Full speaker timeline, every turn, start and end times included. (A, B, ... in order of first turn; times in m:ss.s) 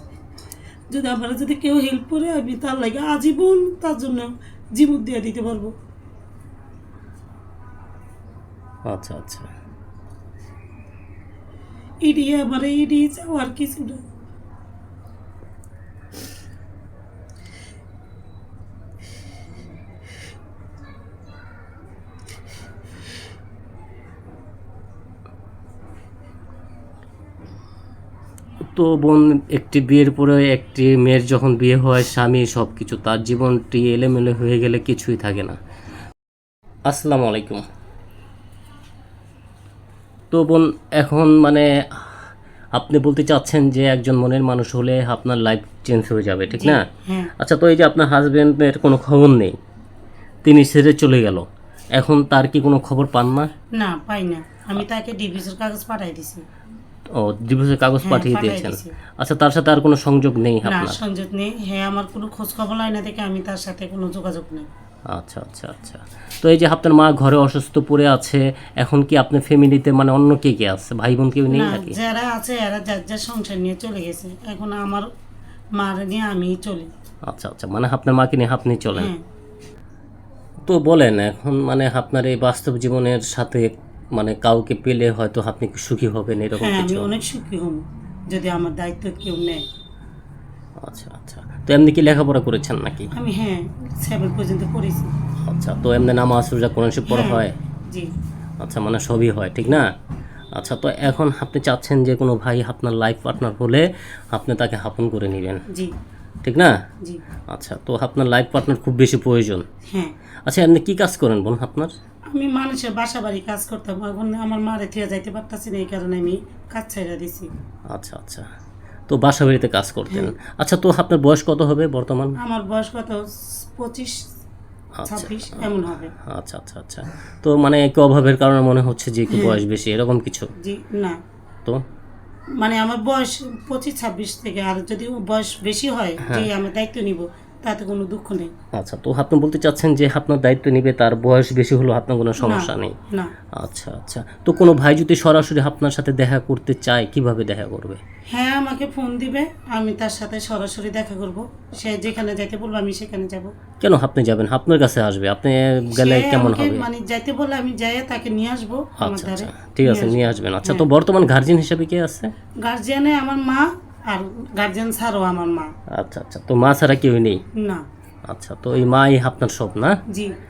0:00.9-0:05.7 A
0:08.9-0:09.5 B
0:12.0-0:14.0 A
0:28.7-0:35.6 B
0:36.9-0:37.6 B
0:40.3-0:46.8 B
0:46.6-0:47.3 A
0:47.4-0:49.6 B
0:50.4-0:53.5 B
0:53.7-0:56.4 A
0:57.1-1:01.0 B
0:58.0-0:58.9 A
1:00.6-1:04.7 A
1:05.1-1:12.0 B
1:11.5-1:15.1 A
1:15.8-1:16.9 A
1:17.3-1:19.1 B
1:20.6-1:27.1 B
1:26.6-1:29.6 A
1:30.8-1:33.1 B
1:33.1-1:35.1 A
1:35.4-1:37.5 B
1:37.1-1:38.1 A
1:38.6-1:39.9 B
1:40.5-1:45.6 B
1:46.4-1:46.8 B
1:47.5-1:49.6 B
1:50.5-1:51.9 B
1:52.3-1:57.5 A
1:57.9-1:58.4 B
1:59.1-2:02.4 B
2:02.4-2:04.2 A
2:05.0-2:10.5 B
2:05.1-2:06.1 A
2:09.3-2:09.6 A
2:10.6-2:11.2 A
2:12.6-2:18.5 A
2:18.7-2:22.9 B
2:22.4-2:23.3 A
2:23.6-2:28.0 B
2:28.3-2:33.5 A
2:33.8-2:36.9 B
2:35.9-2:40.8 A
2:39.0-2:42.3 B
2:42.6-2:45.7 A
2:45.9-2:47.4 B
2:47.6-2:47.8 A
2:48.3-2:50.0 B